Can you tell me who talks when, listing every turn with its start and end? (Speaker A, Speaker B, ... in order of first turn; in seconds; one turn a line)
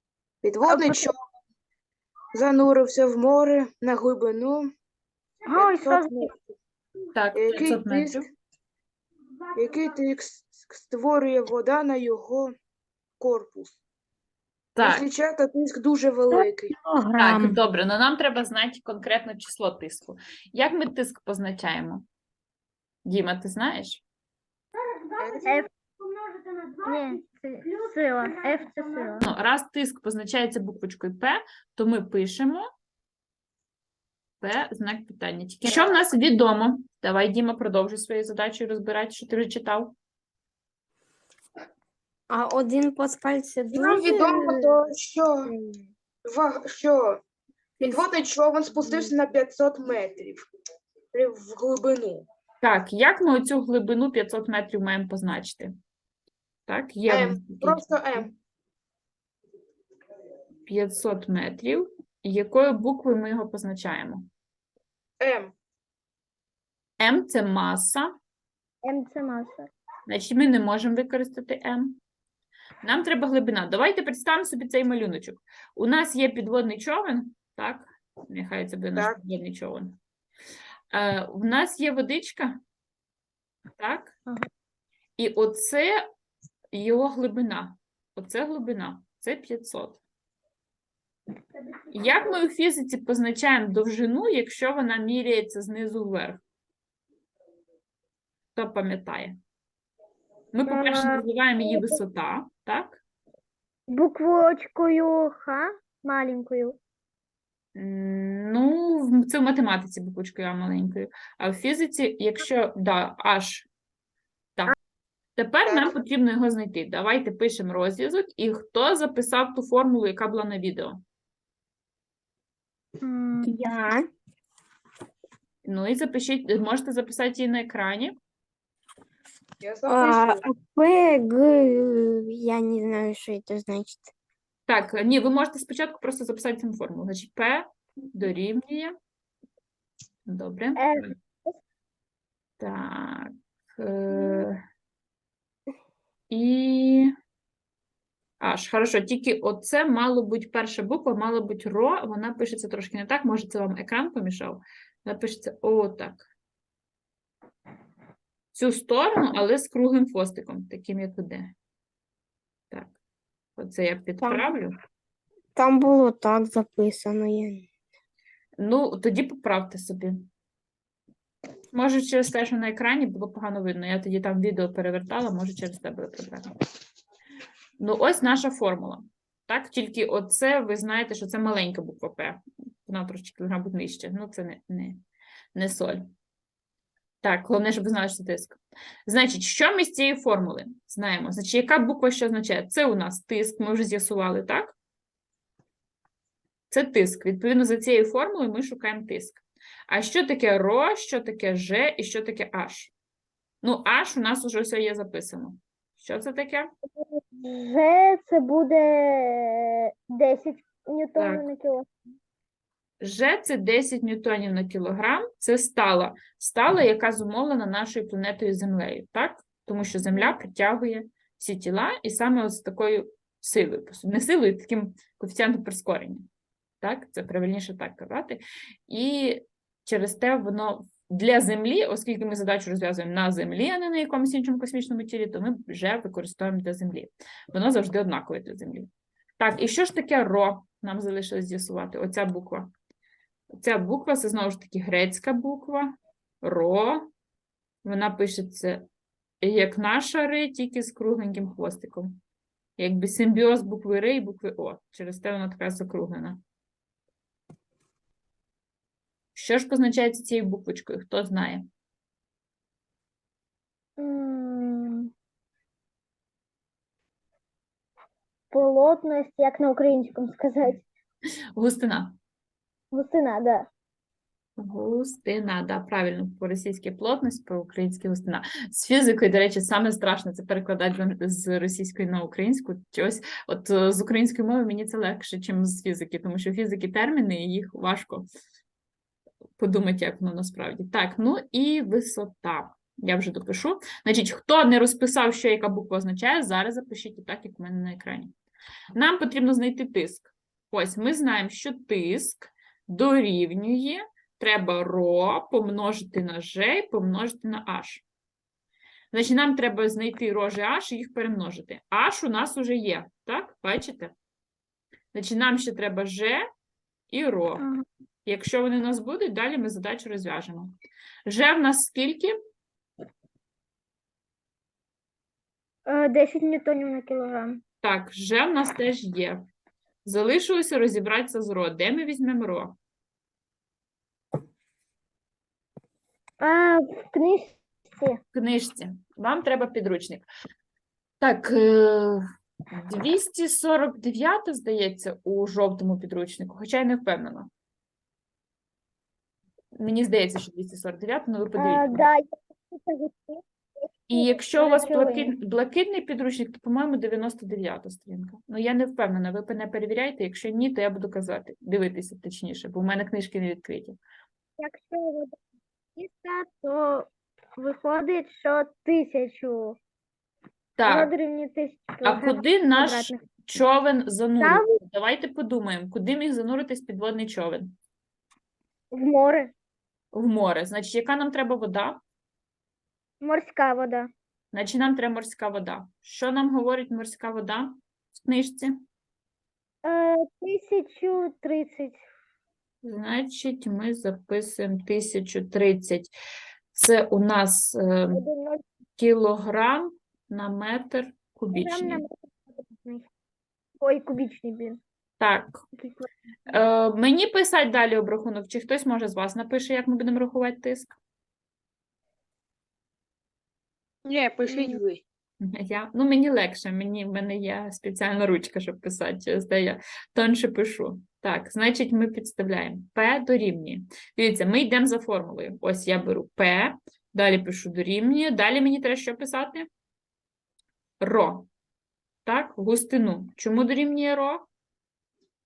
Speaker A: 0.4-1.1
Speaker A: 2.3-4.7
Speaker B: 5.5-6.3
Speaker A: 5.5-6.3
Speaker C: 7.1-8.2
Speaker A: 7.3-8.2
Speaker A: 9.6-12.5
Speaker A: 13.2-13.7
Speaker C: 14.8-15.1
Speaker A: 14.8-16.7
Speaker D: 16.3-17.6
Speaker C: 17.2-22.0
Speaker C: 23.0-24.0
Speaker A: 25.2-25.5
Speaker B: 26.8-29.3
Speaker C: 29.2-32.7
Speaker C: 34.4-39.9
Speaker D: 42.3-44.8
Speaker A: 43.7-45.5
Speaker D: 45.5-45.8
Speaker A: 46.2-47.2
Speaker A: 47.8-50.4
Speaker D: 48.7-49.1
Speaker A: 51.1-52.2
Speaker C: 52.6-55.7
Speaker C: 56.7-58.3
Speaker A: 57.1-58.3
Speaker C: 60.7-64.3
Speaker A: 65.2-65.5
Speaker C: 67.0-68.1
Speaker B: 68.8-69.7
Speaker C: 70.1-72.0
Speaker C: 72.8-80.0
Speaker C: 80.9-82.6
Speaker C: 83.8-84.1
Speaker C: 85.2-86.0
Speaker C: 86.7-90.0
Speaker C: 91.9-96.4
Speaker B: 92.0-92.3
Speaker C: 98.5-99.4
Speaker C: 100.5-103.0
Speaker B: 100.7-102.0
Speaker B: 103.9-106.8
Speaker C: 107.8-113.7
Speaker C: 115.3-121.0
Speaker A: 115.6-115.9
Speaker B: 123.0-123.5
Speaker D: 123.4-124.1
Speaker C: 125.6-128.2
Speaker A: 129.6-130.4
Speaker D: 129.8-134.1
Speaker C: 134.7-138.9
Speaker C: 140.2-141.1
Speaker B: 140.8-141.5
Speaker C: 142.6-144.6
Speaker B: 144.1-144.4
Speaker C: 146.3-147.1
Speaker C: 148.4-156.3
Speaker C: 158.5-161.5
Speaker C: 163.6-164.8
Speaker D: 164.2-164.5
Speaker D: 165.5-167.7
Speaker C: 168.6-170.2
Speaker C: 171.7-176.5
Speaker C: 177.8-185.0
Speaker C: 185.5-186.1
Speaker C: 187.2-194.8
Speaker C: 196.7-202.9
Speaker C: 203.6-206.7
Speaker B: 207.1-211.9
Speaker C: 211.2-211.5
Speaker C: 213.0-226.2
Speaker B: 220.0-220.3
Speaker C: 226.8-242.7
Speaker C: 243.5-247.1
Speaker C: 247.8-248.8
Speaker C: 249.4-252.2
Speaker C: 252.8-256.4
Speaker C: 259.3-261.6
Speaker B: 264.0-265.1
Speaker B: 268.5-270.8
Speaker C: 271.6-272.1
Speaker B: 272.9-273.7
Speaker C: 274.6-288.3
Speaker C: 289.6-298.3
Speaker C: 298.9-308.0
Speaker C: 309.1-314.1
Speaker C: 315.1-316.4
Speaker C: 317.1-317.6
Speaker C: 318.2-322.3
Speaker B: 325.9-327.6
Speaker C: 327.8-329.4
Speaker C: 330.0-332.8
Speaker B: 336.4-338.2
Speaker C: 338.3-340.3
Speaker C: 341.2-342.2
Speaker C: 342.8-347.5
Speaker C: 349.8-352.1
Speaker B: 351.6-353.4
Speaker B: 354.1-355.4
Speaker C: 354.1-364.0
Speaker B: 364.6-365.4
Speaker B: 366.0-369.8
Speaker C: 370.8-371.1
Speaker B: 370.9-373.2
Speaker C: 372.0-377.7
Speaker B: 374.4-374.7
Speaker B: 378.9-379.5
Speaker C: 380.1-382.0
Speaker B: 383.2-384.1
Speaker C: 384.5-388.8
Speaker B: 389.8-392.0
Speaker C: 392.8-396.1
Speaker C: 396.7-398.2
Speaker B: 398.1-398.6
Speaker C: 399.0-402.0
Speaker B: 401.5-403.1
Speaker B: 403.8-404.8
Speaker C: 405.2-405.6
Speaker B: 405.8-406.1
Speaker C: 406.5-411.0
Speaker A: 414.1-415.0
Speaker B: 414.5-414.8
Speaker C: 415.4-429.7
Speaker C: 431.0-431.5
Speaker C: 432.2-434.5